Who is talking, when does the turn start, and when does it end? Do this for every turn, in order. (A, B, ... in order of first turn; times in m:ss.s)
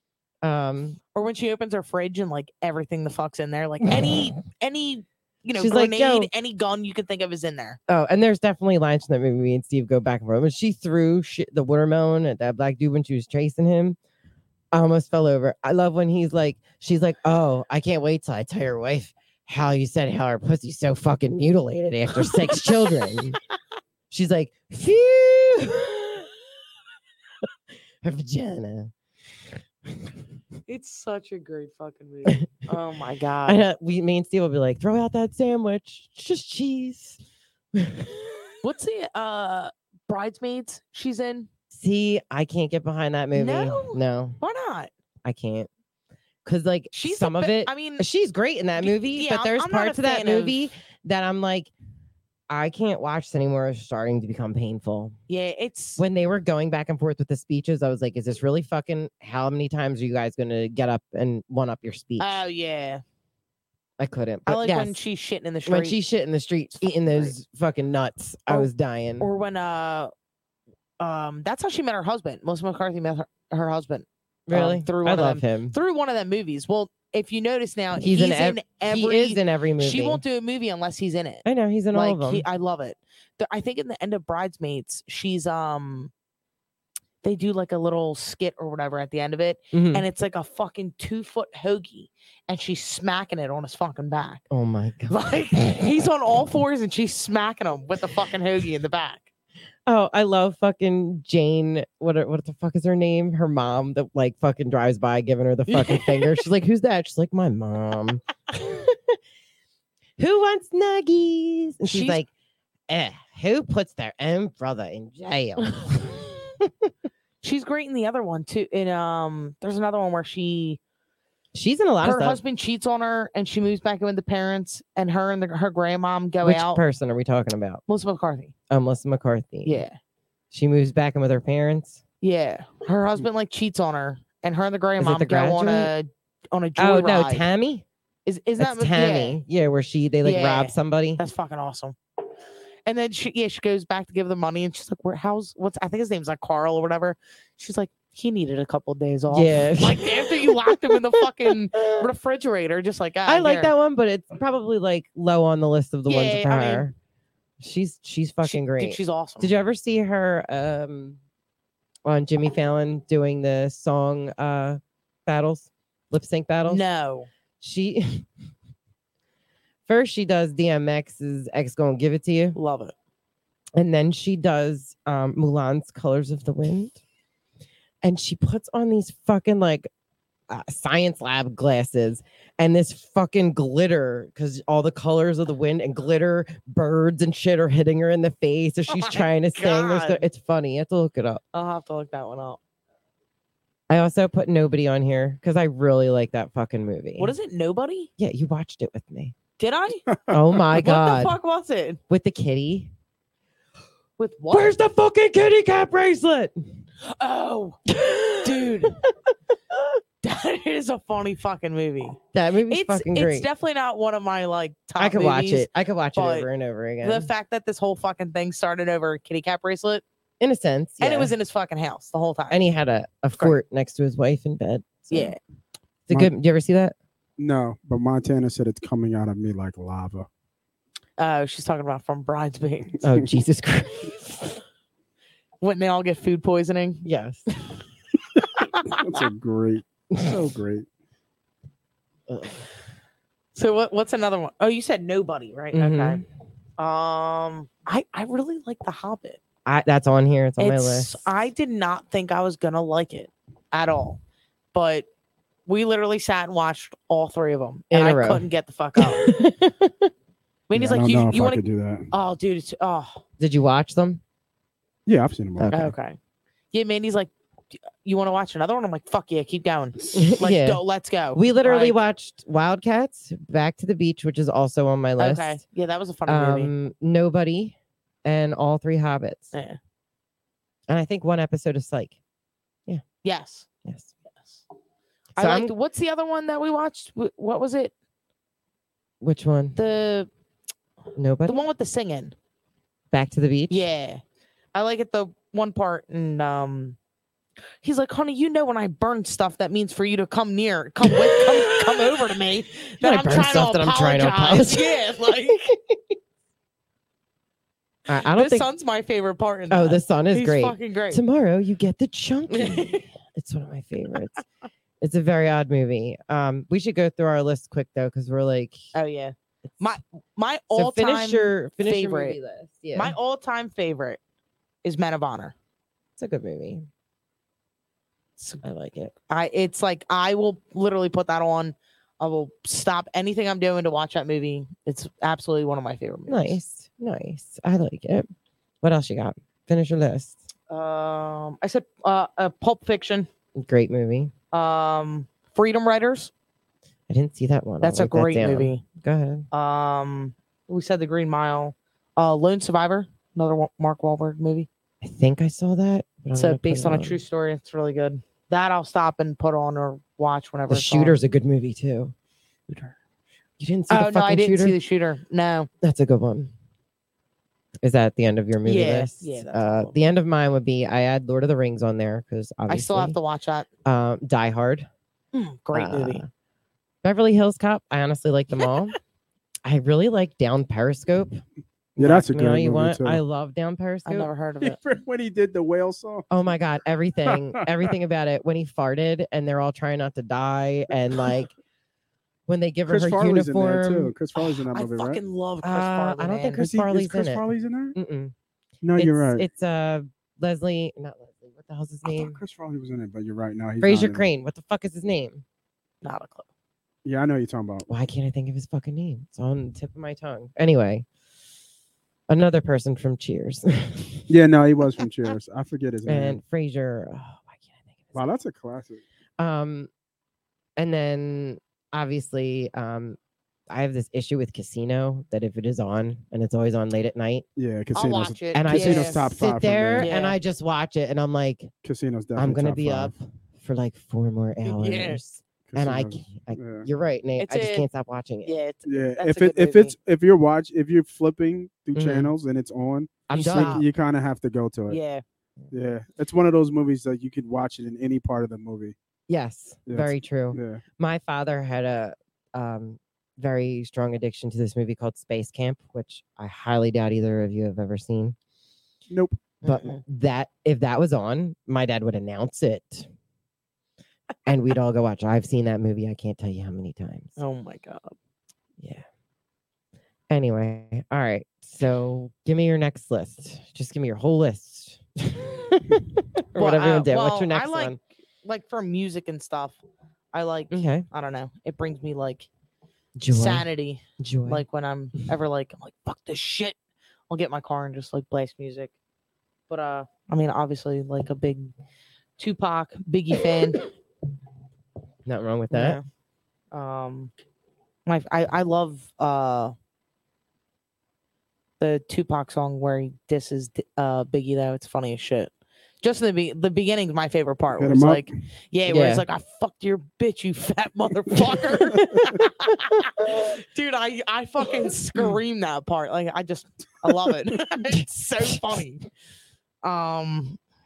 0:00.4-0:01.0 A
0:01.1-0:07.8 B
0:03.9-0:04.3 A
0:05.6-0:06.3 A
0:07.9-0:14.0 A
0:14.7-0:23.4 A
0:24.1-0:26.3 A
0:28.0-0:28.9 A
0:29.9-0:30.2 A
0:30.7-0:33.6 B
0:33.5-0:37.2 A
0:37.7-0:38.5 A
0:38.6-0:41.5 B
0:41.7-0:44.4 A
0:43.3-0:44.9 B
0:45.2-0:45.7 A
0:46.4-0:51.7 A
0:46.9-0:48.0 B
0:48.8-0:50.6 B
0:52.5-0:55.2 A
0:55.3-0:56.0 B
0:56.0-1:02.4 A
1:02.2-1:03.0 B
1:04.0-1:05.0 A
1:04.5-1:06.0 B
1:05.7-1:09.3 A
1:06.8-1:07.3 B
1:09.2-1:10.1 B
1:11.0-1:26.1 B
1:14.5-1:15.8 A
1:18.0-1:20.2 A
1:21.4-1:22.4 A
1:27.2-1:34.4 B
1:29.7-1:30.0 A
1:34.5-1:35.9 A
1:35.1-1:39.3 B
1:39.9-1:49.2 A
1:45.7-1:46.4 B
1:50.2-1:52.3 A
1:51.8-1:52.2 B
1:52.9-1:56.9 A
1:55.8-1:56.2 B
1:57.4-2:00.8 B
2:01.5-2:02.4 A
2:02.0-2:06.8 B
2:06.4-2:07.8 A
2:07.9-2:08.5 B
2:08.7-2:09.8 A
2:09.6-2:10.0 B
2:10.5-2:12.0 A
2:12.2-2:17.4 B
2:15.0-2:15.9 A
2:16.8-2:17.8 A
2:18.3-2:19.4 B
2:18.6-2:21.2 A
2:20.2-2:22.0 B
2:22.9-2:33.7 B
2:29.3-2:32.1 A
2:33.3-2:36.9 A
2:36.1-2:36.9 B
2:37.6-2:41.2 A
2:38.4-2:39.5 B
2:42.0-2:46.8 A
2:46.7-2:47.3 B
2:47.6-2:48.3 A
2:49.9-2:52.6 A
2:52.6-2:52.9 B
2:53.8-2:57.0 A
2:58.0-2:59.9 A
3:00.5-3:11.4 A
3:08.9-3:10.2 B
3:11.5-3:12.6 B
3:13.9-3:17.3 A
3:17.2-3:18.1 B
3:18.2-3:19.4 A
3:19.6-3:20.1 B
3:20.3-3:21.4 A
3:20.7-3:22.0 B
3:22.1-3:22.9 A
3:24.2-3:24.7 B
3:24.5-3:26.6 A
3:27.0-3:27.8 B
3:27.9-3:29.1 A
3:28.4-3:29.0 B
3:30.2-3:36.5 B
3:32.3-3:33.5 A
3:35.0-3:37.3 A
3:37.0-3:40.0 B
3:40.4-3:41.3 A
3:41.0-3:42.6 B
3:42.5-3:45.3 A
3:45.1-3:45.4 B
3:46.1-3:47.0 A
3:47.4-3:50.3 C
3:51.2-3:53.0 B
3:53.0-3:54.6 A
3:55.6-3:57.0 B
3:57.0-3:57.4 A
3:58.5-3:59.2 B
3:58.9-4:00.9 C
4:00.1-4:00.4 A
4:02.3-4:02.7 A
4:03.6-4:06.2 B
4:05.7-4:06.2 A
4:06.8-4:09.4 B
4:09.7-4:11.3 A
4:10.6-4:14.2 B
4:14.7-4:15.1 B
4:15.7-4:19.4 B
4:17.9-4:18.4 A
4:19.0-4:20.1 A
4:20.7-4:23.2 B
4:20.7-4:22.1 C
4:23.4-4:24.2 A
4:25.1-4:25.7 C
4:25.6-4:25.9 A
4:25.7-4:26.2 B
4:26.7-4:27.3 B
4:28.0-4:32.0 B
4:30.1-4:30.8 A
4:31.3-4:35.6 A
4:35.2-4:36.7 B
4:36.3-4:39.5 A
4:39.5-4:39.8 B
4:40.9-4:42.2 A
4:43.2-4:43.7 B
4:43.8-4:44.1 A
4:44.3-4:44.6 B
4:45.4-4:47.9 B
4:45.4-4:45.7 A
4:49.2-4:49.8 A
4:49.8-4:50.3 B
4:51.2-4:51.6 A
4:51.5-4:52.4 B
4:53.1-4:53.8 A
4:53.7-4:54.2 B
4:54.7-4:57.0 B
4:57.8-5:05.6 B
5:01.0-5:05.0 A
5:05.5-5:06.2 A
5:08.1-5:08.7 A
5:08.2-5:11.2 B
5:09.7-5:14.4 A
5:12.5-5:13.0 B
5:15.0-5:18.8 A
5:18.9-5:22.4 B
5:20.7-5:23.2 A
5:23.0-5:24.2 B
5:24.8-5:25.6 B
5:26.2-5:26.9 A
5:28.4-5:28.6 B
5:28.6-5:29.1 A
5:29.3-5:36.6 B
5:36.3-5:38.3 A
5:38.8-5:40.4 A
5:40.7-5:43.3 B
5:43.6-5:44.3 A
5:44.5-5:46.3 B
5:47.1-5:49.4 A
5:47.8-5:48.8 B
5:49.5-5:54.7 B
5:55.0-5:57.2 A
5:56.4-6:01.2 B
6:00.7-6:02.1 A
6:03.6-6:04.8 A
6:03.9-6:05.7 B
6:05.8-6:06.5 A
6:07.8-6:13.2 A
6:08.6-6:10.0 B
6:12.7-6:13.7 B
6:13.8-6:14.9 A
6:15.3-6:16.2 B
6:15.7-6:16.3 A
6:17.0-6:19.0 A
6:19.6-6:21.4 A
6:22.0-6:24.3 A
6:22.0-6:23.2 C
6:24.1-6:24.8 B
6:24.6-6:26.3 C
6:26.3-6:31.5 A
6:27.3-6:27.7 C
6:32.5-6:34.1 A
6:32.9-6:35.2 C
6:34.4-6:36.6 B
6:35.6-6:38.3 A
6:36.6-6:38.0 C
6:38.8-6:39.5 C
6:39.0-6:42.4 A
6:42.0-6:44.3 C
6:43.8-6:45.4 A
6:46.0-6:46.5 B
6:47.0-6:47.9 C
6:47.9-6:51.1 A
6:52.3-6:54.3 A
6:54.3-6:56.4 C
6:56.1-6:58.2 A
6:58.1-6:59.0 C
6:59.4-6:59.9 A
7:00.8-7:03.2 A
7:03.7-7:07.4 A
7:07.6-7:10.1 C
7:08.0-7:09.2 B
7:08.5-7:11.7 A
7:10.0-7:10.4 B
7:11.8-7:13.1 C
7:12.4-7:18.5 A
7:14.6-7:15.2 B
7:15.7-7:16.9 C
7:17.4-7:17.9 B
7:18.4-7:20.0 B
7:18.9-7:25.0 C
7:22.0-7:22.3 A
7:23.3-7:23.8 A
7:23.3-7:23.8 B
7:24.9-7:25.2 B
7:25.7-7:29.0 C
7:29.3-7:38.4 A
7:29.9-7:30.8 C
7:39.1-7:39.4 C
7:39.6-7:40.0 B
7:39.6-7:43.1 A
7:44.5-7:47.4 A
7:47.4-7:48.2 B
7:48.8-7:49.0 A
7:50.3-7:58.0 A
7:56.6-7:59.8 B
8:00.3-8:02.5 B
8:00.7-8:01.1 A
8:03.2-8:03.6 A
8:03.3-8:06.8 B
8:04.2-8:04.6 A
8:07.3-8:08.9 B
8:09.7-8:11.7 B
8:12.4-8:13.8 B
8:15.2-8:16.0 A
8:15.7-8:16.0 B
8:16.7-8:17.3 B
8:18.1-8:19.8 B
8:21.8-8:39.1 B
8:27.8-8:28.3 C
8:28.9-8:29.2 A
8:31.8-8:32.4 A
8:33.0-8:33.2 A
8:39.8-8:40.6 B